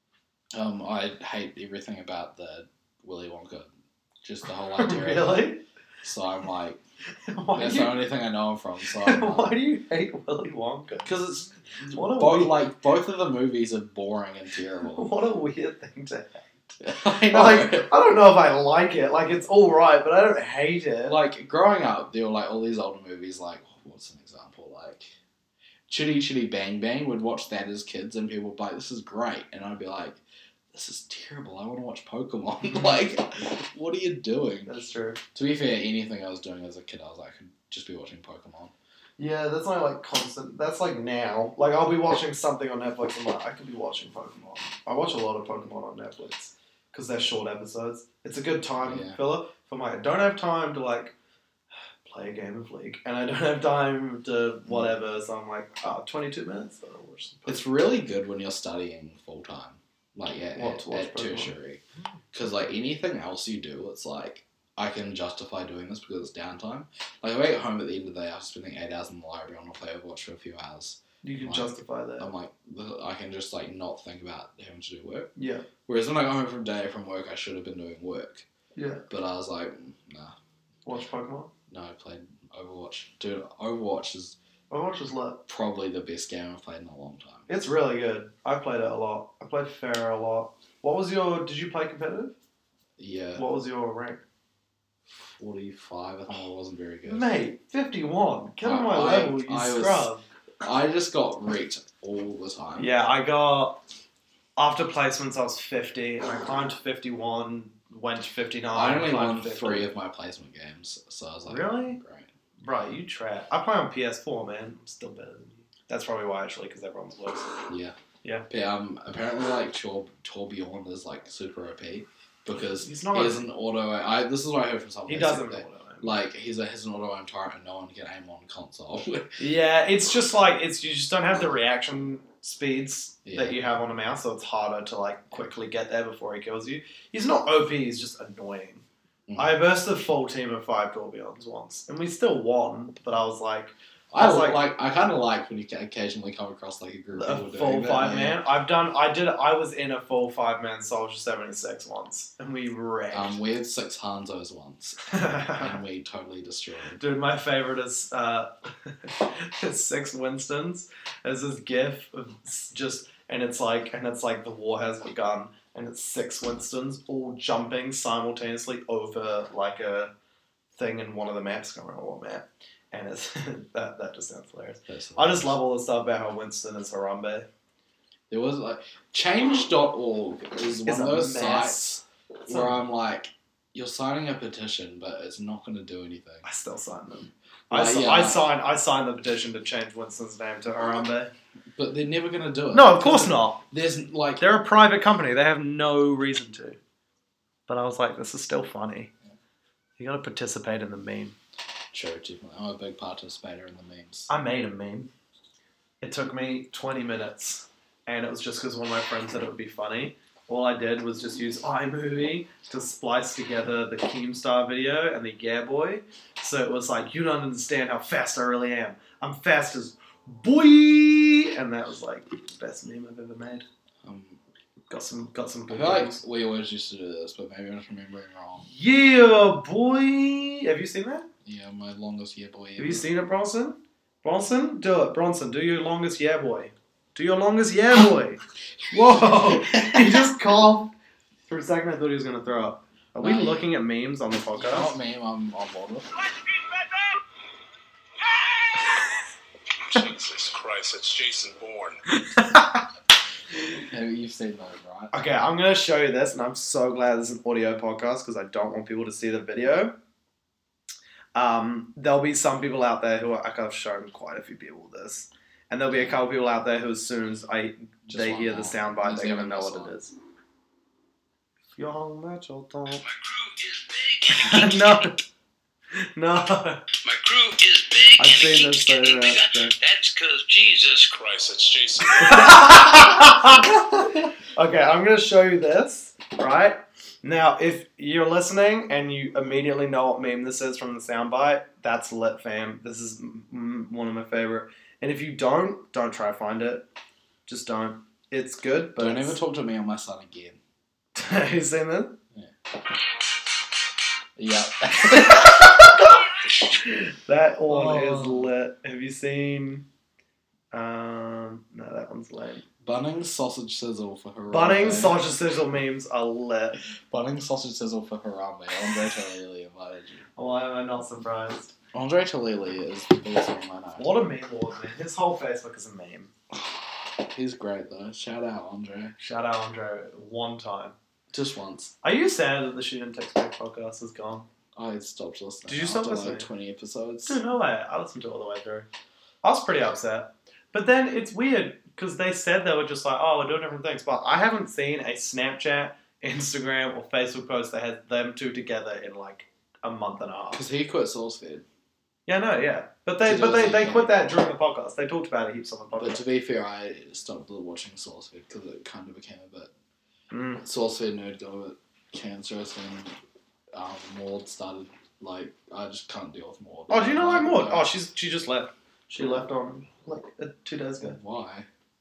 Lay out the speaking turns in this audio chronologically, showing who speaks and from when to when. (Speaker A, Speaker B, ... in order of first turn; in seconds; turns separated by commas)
Speaker A: 0.5-3.7, Speaker A: 4.2-6.8, Speaker B: 4.8-5.6, Speaker B: 7.3-8.0, Speaker A: 7.5-9.5, Speaker B: 9.0-11.1, Speaker A: 11.0-15.1, Speaker B: 11.9-12.6, Speaker B: 14.9-16.7, Speaker A: 16.8-17.9, Speaker B: 17.3-21.2, Speaker A: 21.1-25.1, Speaker A: 25.9-30.2, Speaker A: 30.7-34.7, Speaker B: 32.6-33.0, Speaker B: 34.6-35.2, Speaker A: 35.3-38.7, Speaker B: 39.2-51.1, Speaker A: 48.8-49.2, Speaker B: 52.0-57.6, Speaker A: 54.6-55.0, Speaker A: 57.5-61.8, Speaker B: 60.5-61.5, Speaker A: 62.3-75.3, Speaker B: 71.2-72.3, Speaker B: 75.3-75.7, Speaker A: 75.8-78.5, Speaker B: 78.8-79.0, Speaker A: 79.1-80.3, Speaker B: 80.8-81.5, Speaker A: 81.7-84.4, Speaker B: 84.7-85.4, Speaker A: 85.5-87.5, Speaker B: 87.5-92.3, Speaker A: 93.0-93.4, Speaker B: 93.3-94.2, Speaker A: 95.1-97.3, Speaker B: 97.0-100.2, Speaker A: 98.6-102.9, Speaker B: 102.8-103.8, Speaker B: 104.6-109.9, Speaker A: 108.7-112.3, Speaker B: 111.5-112.0, Speaker B: 112.6-117.6, Speaker A: 117.7-118.0, Speaker A: 118.5-129.4, Speaker B: 122.5-123.4, Speaker B: 125.1-126.1, Speaker B: 129.4-138.8, Speaker A: 133.2-133.6, Speaker A: 139.3-139.6, Speaker B: 139.4-144.6, Speaker A: 144.1-148.4, Speaker B: 147.2-153.4, Speaker A: 153.1-157.0, Speaker B: 155.1-155.8, Speaker B: 157.0-170.1, Speaker B: 170.7-177.5, Speaker A: 174.9-175.6, Speaker A: 178.3-186.4, Speaker B: 180.8-181.9, Speaker B: 182.5-182.8, Speaker B: 186.4-191.3, Speaker A: 187.7-188.5, Speaker A: 191.7-194.4, Speaker B: 192.7-193.6, Speaker B: 194.4-196.8, Speaker B: 197.7-199.1, Speaker B: 200.0-201.3, Speaker A: 201.9-204.3, Speaker B: 204.3-205.1, Speaker B: 206.0-223.7, Speaker A: 224.0-224.4, Speaker B: 224.9-226.2, Speaker A: 225.7-228.7, Speaker B: 228.6-231.3, Speaker A: 231.4-233.1, Speaker B: 232.8-240.9, Speaker A: 239.1-240.3, Speaker B: 241.5-244.9, Speaker A: 243.2-243.6, Speaker A: 244.6-246.1, Speaker C: 249.9-252.0, Speaker B: 252.1-252.8, Speaker A: 253.7-255.1, Speaker B: 255.1-259.9, Speaker B: 261.3-270.1, Speaker A: 268.1-269.9, Speaker B: 271.8-273.0, Speaker C: 273.0-275.1, Speaker B: 274.3-275.2, Speaker B: 276.1-276.9, Speaker C: 277.0-282.7, Speaker B: 278.2-279.7, Speaker B: 282.1-296.8, Speaker B: 297.5-299.4, Speaker A: 299.0-300.6, Speaker B: 301.1-302.2, Speaker A: 304.4-305.9, Speaker B: 305.1-309.9, Speaker A: 307.7-308.5, Speaker B: 310.7-312.7, Speaker A: 312.8-315.2, Speaker B: 314.5-316.8, Speaker A: 316.8-320.3, Speaker B: 320.4-321.7, Speaker A: 321.9-324.2, Speaker B: 324.0-326.3, Speaker A: 326.5-329.1, Speaker B: 329.2-330.9, Speaker A: 331.3-331.9, Speaker B: 332.0-334.5, Speaker A: 334.8-337.4, Speaker B: 335.6-336.5, Speaker B: 337.2-338.9, Speaker B: 339.4-350.6, Speaker A: 350.5-351.6, Speaker B: 352.3-356.2, Speaker A: 353.2-354.2, Speaker A: 355.9-359.7, Speaker B: 360.3-360.6, Speaker A: 360.6-363.1, Speaker A: 363.7-367.9, Speaker B: 366.9-371.2, Speaker A: 371.0-371.7